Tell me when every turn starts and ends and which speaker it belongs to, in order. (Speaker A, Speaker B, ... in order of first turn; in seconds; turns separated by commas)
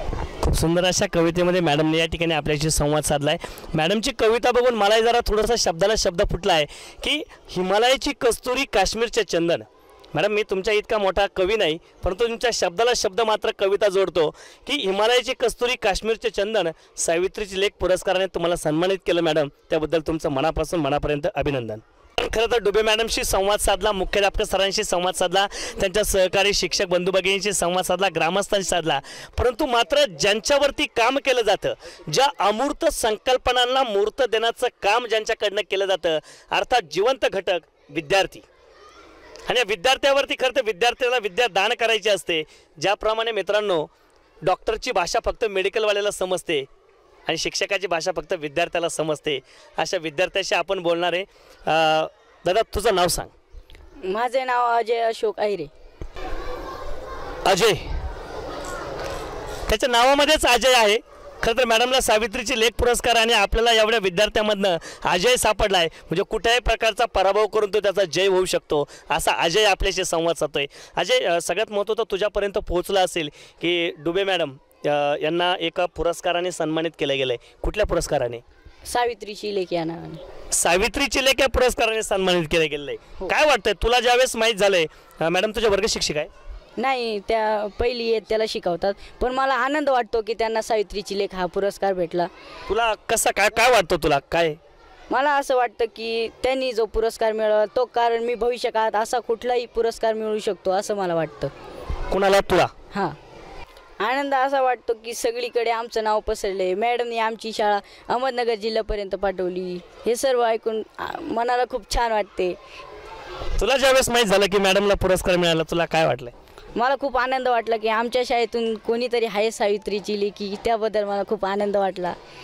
Speaker A: 0.4-38.4, Speaker A: 39.5-43.9, Speaker A: 44.4-46.7, Speaker A: 47.2-53.3, Speaker B: 54.0-55.7, Speaker A: 57.4-57.8, Speaker A: 59.7-78.4, Speaker B: 78.8-80.2, Speaker A: 80.5-86.3, Speaker B: 86.8-92.3, Speaker A: 92.7-94.6, Speaker B: 95.1-101.5, Speaker A: 102.1-102.7, Speaker B: 102.9-103.2, Speaker B: 104.0-112.6, Speaker A: 113.6-116.3, Speaker B: 116.8-122.2